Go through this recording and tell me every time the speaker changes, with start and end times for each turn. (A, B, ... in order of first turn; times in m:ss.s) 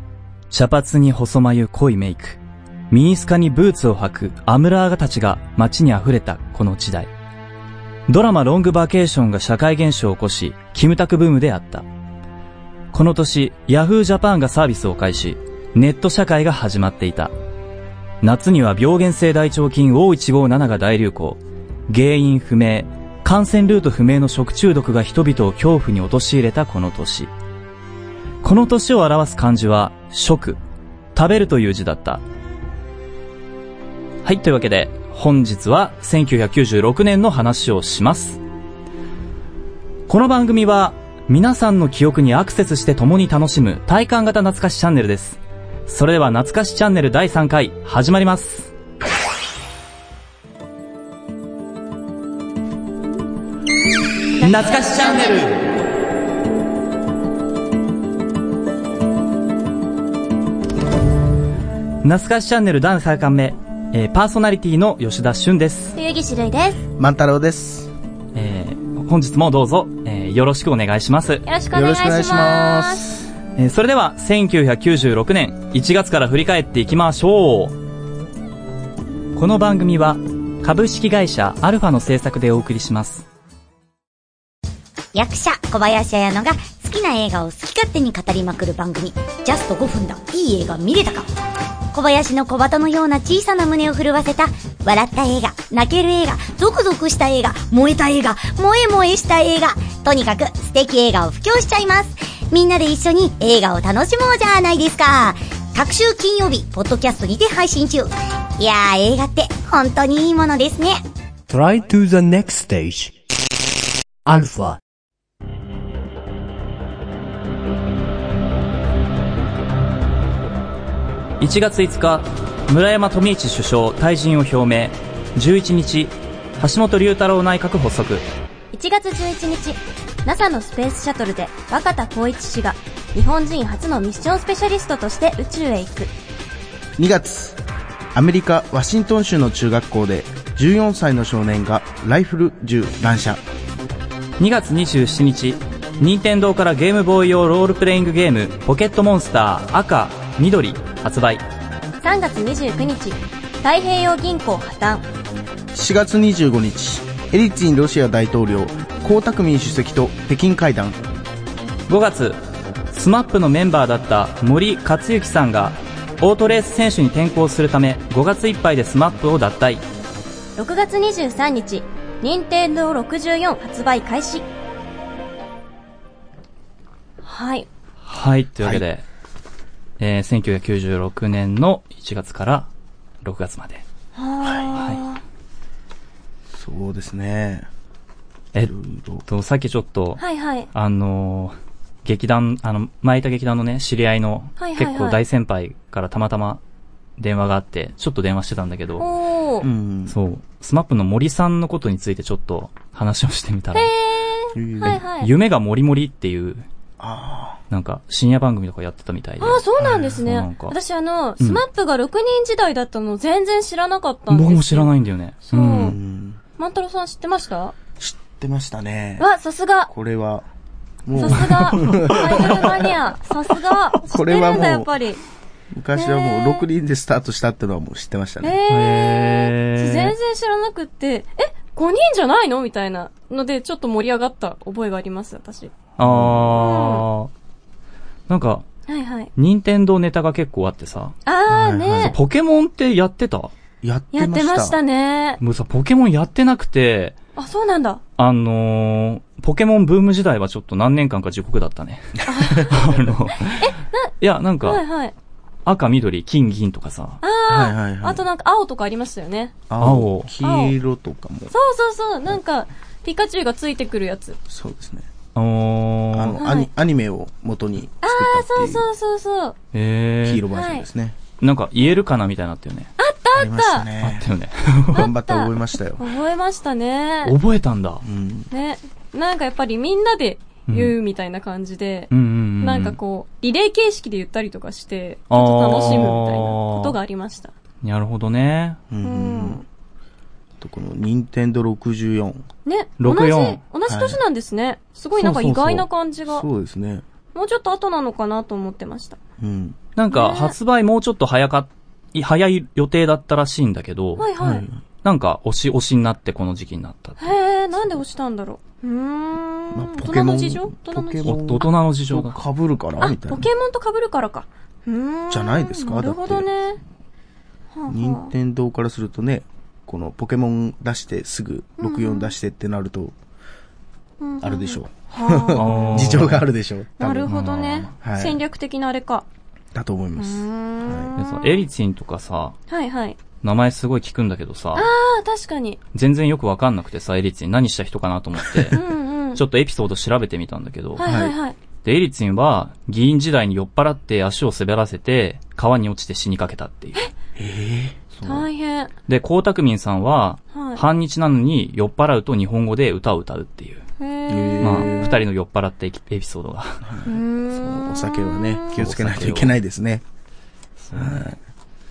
0:00.5-0:02.4 A
0:02.9-0:07.1 A
0:08.1-0:11.8 A
0:12.9-0:17.3 A
0:18.2-0:27.3 A
0:28.4-0:30.6 A
0:31.1-0:32.2 A
0:34.2-0:38.4 A
0:40.1-0:48.7 A
0:54.4-0:55.6 A
1:02.0-1:06.0 A
1:06.0-1:06.8 B
1:07.0-1:07.9 C
1:08.3-1:11.4 A
1:11.4-1:13.0 B
1:11.7-1:13.3 C
1:13.6-1:17.8 A
1:19.3-1:23.2 A
1:25.1-1:31.3 D
1:31.9-1:51.0 D
1:51.5-1:53.1 E
1:54.2-1:54.8 E
2:01.4-2:08.2 A
2:08.7-2:16.1 B
2:17.0-2:17.6 C
2:18.1-2:23.4 C
2:24.4-2:31.4 A
2:32.0-2:35.1 B
2:35.7-2:41.0 C
2:41.9-2:42.4 A
2:42.9-2:49.8 A
2:50.6-2:54.5 B
2:57.2-2:57.7 B
2:58.0-2:59.0 A
2:58.6-2:58.8 C
3:00.0-3:02.7 A
3:03.2-3:03.8 A
3:04.1-3:05.2 B
3:04.4-3:04.8 C
3:04.7-3:05.0 A
3:06.5-3:07.7 C
3:08.6-3:09.2 C
3:09.2-3:10.2 A
3:10.2-3:10.7 B
3:10.7-3:16.6 A
3:14.6-3:15.2 B
3:17.2-3:19.0 A
3:19.0-3:19.7 B
3:19.6-3:20.1 C
3:20.1-3:23.9 A
3:23.7-3:25.3 B
3:24.5-3:25.0 C
3:24.8-3:26.6 A
3:27.0-3:27.6 C
3:27.7-3:30.7 A
3:29.4-3:34.9 B
3:29.8-3:30.1 C
3:34.3-3:36.0 A
3:35.5-3:36.0 B
3:35.8-3:36.4 C
3:36.6-3:37.7 B
3:38.0-3:39.3 C
3:39.2-3:39.9 B
3:39.9-3:40.4 C
3:41.0-3:42.9 C
3:41.1-3:45.2 B
3:41.4-3:42.5 A
3:44.1-3:44.9 C
3:45.7-3:48.6 C
3:46.0-3:46.7 B
3:48.4-3:55.7 B
3:48.7-3:50.1 A
3:56.0-3:56.6 C
3:56.0-3:57.3 A
3:56.5-3:57.0 B
3:58.3-3:58.6 A
3:58.9-3:59.3 B
3:59.4-4:01.2 A
4:01.2-4:02.2 B
4:01.5-4:02.1 C
4:02.0-4:03.5 A
4:03.8-4:04.8 C
4:04.1-4:05.4 B
4:05.4-4:07.2 A
4:07.4-4:08.0 B
4:08.2-4:13.7 A
4:12.2-4:12.8 B
4:12.2-4:13.1 C
4:13.6-4:14.1 B
4:14.2-4:14.8 A
4:14.6-4:15.1 B
4:15.6-4:17.2 A
4:17.2-4:19.6 B
4:17.5-4:18.2 C
4:19.7-4:21.5 C
4:19.8-4:20.3 A
4:20.4-4:20.8 B
4:21.5-4:24.4 B
4:24.5-4:25.1 C
4:25.3-4:26.4 A
4:26.1-4:28.8 C
4:26.4-4:26.7 B
4:28.0-4:29.6 B
4:29.7-4:30.4 A
4:30.2-4:31.2 C
4:30.5-4:30.9 B
4:31.4-4:32.9 A
4:33.0-4:33.9 B
4:33.3-4:34.3 C
4:34.0-4:35.0 A
4:34.9-4:36.0 C
4:34.9-4:37.3 B
4:37.2-4:38.0 A
4:38.0-4:38.5 C
4:38.5-4:47.5 B
4:40.7-4:40.9 A
4:42.1-4:43.0 A
4:45.3-4:47.0 A
4:47.8-4:48.8 A
4:48.9-4:49.6 C
4:49.0-4:49.6 B
4:50.6-4:52.4 C
4:52.6-4:56.5 B
4:53.0-4:53.6 A
4:53.9-4:54.2 C
4:55.2-4:57.0 C
4:57.3-4:59.2 B
4:59.4-4:59.8 C
5:00.0-5:04.2 A
5:00.1-5:00.5 B
5:04.2-5:04.6 B
5:04.4-5:04.8 C
5:05.0-5:07.3 A
5:07.2-5:11.7 B
5:09.7-5:13.5 C
5:11.2-5:12.4 A
5:13.0-5:16.8 B
5:15.3-5:16.5 C
5:17.7-5:18.3 B
5:17.9-5:23.1 C
5:21.8-5:22.3 B
5:24.2-5:26.3 B
5:24.4-5:27.3 C
5:25.5-5:26.4 A
5:27.0-5:29.2 B
5:27.3-5:27.9 A
5:28.0-5:28.4 C
5:29.7-5:31.1 C
5:30.2-5:31.6 B
5:31.2-5:32.6 A
5:32.7-5:33.2 B
5:33.4-5:34.9 A
5:34.7-5:35.8 B
5:35.9-5:38.8 A
5:38.7-5:39.4 B
5:39.3-5:41.0 A
5:41.0-5:41.6 B
5:41.0-5:41.3 C
5:41.8-5:47.0 A
5:47.4-5:48.1 C
5:48.2-5:48.4 A
5:48.2-5:48.9 B
5:49.1-5:53.8 A
5:50.5-5:50.8 B
5:54.0-5:54.9 B
5:54.3-5:55.1 C
5:54.6-5:56.8 A
5:56.8-6:00.0 C
5:57.0-5:58.8 B
5:58.8-5:59.6 A
6:00.8-6:01.3 A
6:00.9-6:01.4 C